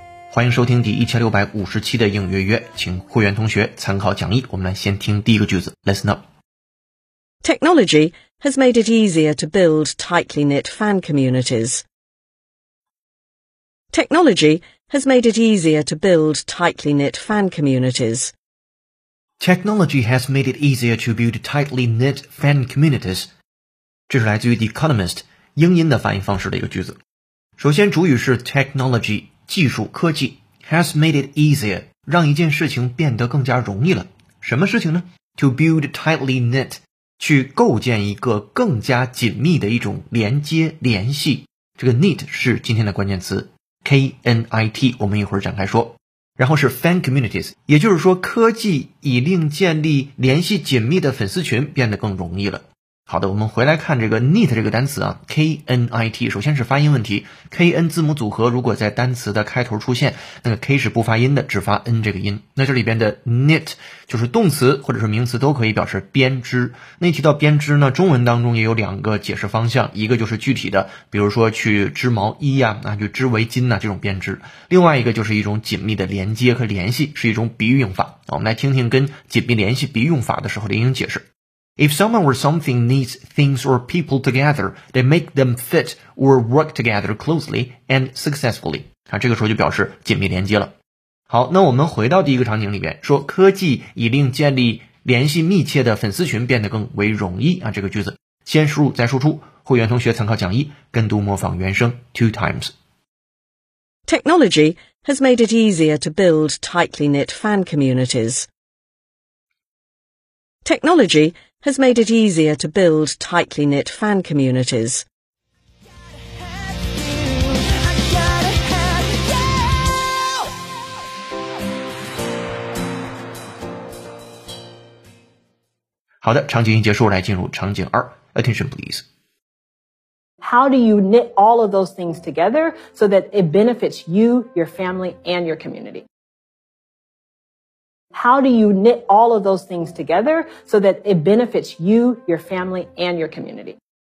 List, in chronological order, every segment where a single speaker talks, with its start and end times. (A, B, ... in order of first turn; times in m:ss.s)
0:00.3-0:06.2 A
0:07.4-0:11.8 B
0:13.9-0:18.3 B
0:19.4-0:23.3 A
0:24.1-0:27.0 A
0:27.6-1:21.2 A
1:21.8-1:30.7 A
1:31.3-1:42.7 A
1:44.1-1:48.5 B
1:50.6-1:55.0 B
2:06.2-2:09.0 A
2:10.4-2:16.0 C
2:18.1-2:23.8 C